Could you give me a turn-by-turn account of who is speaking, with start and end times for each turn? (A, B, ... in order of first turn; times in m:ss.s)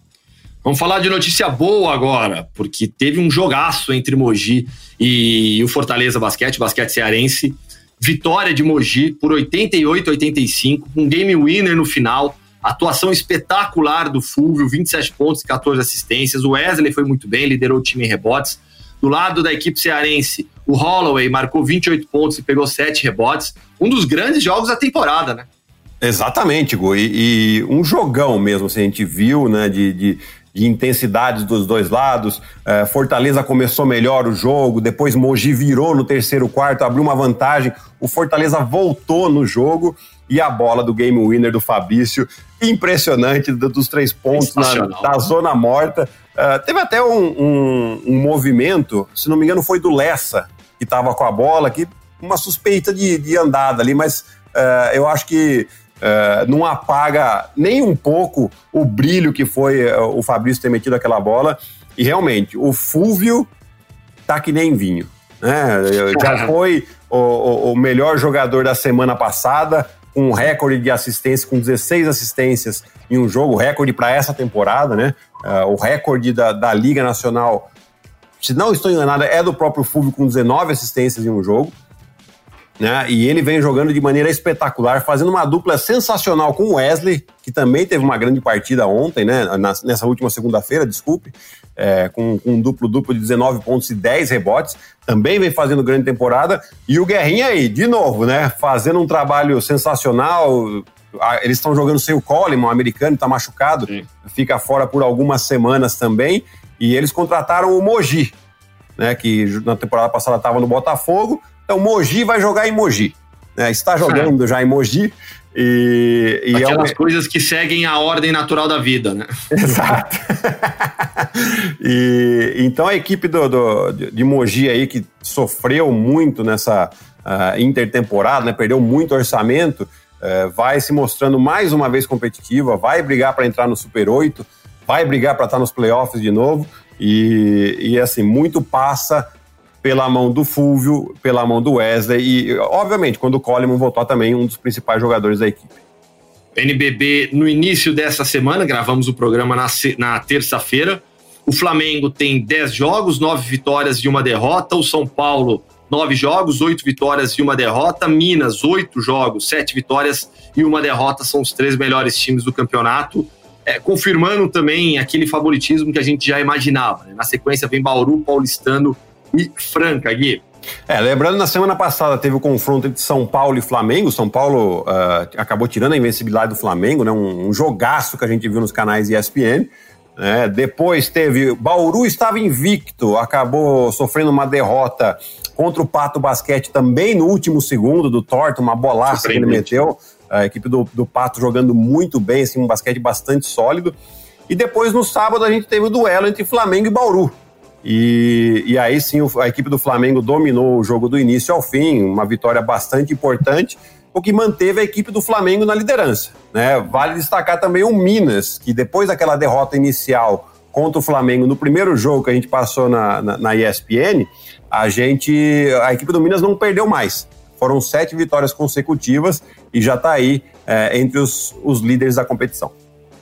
0:00.6-0:25.5 A
0:26.0-1:03.5 B
0:44.3-0:45.1 A
1:04.3-1:17.7 B
1:06.2-1:06.5 A
1:18.4-1:21.7 B
1:22.8-1:48.3 B
1:49.0-1:56.9 B
1:54.1-1:54.3 A
1:56.5-1:59.8 A
1:59.5-2:19.2 B
2:19.8-2:25.7 B
2:26.6-2:50.4 A
2:50.9-3:13.9 B
3:09.1-3:09.7 A
3:14.5-3:42.7 B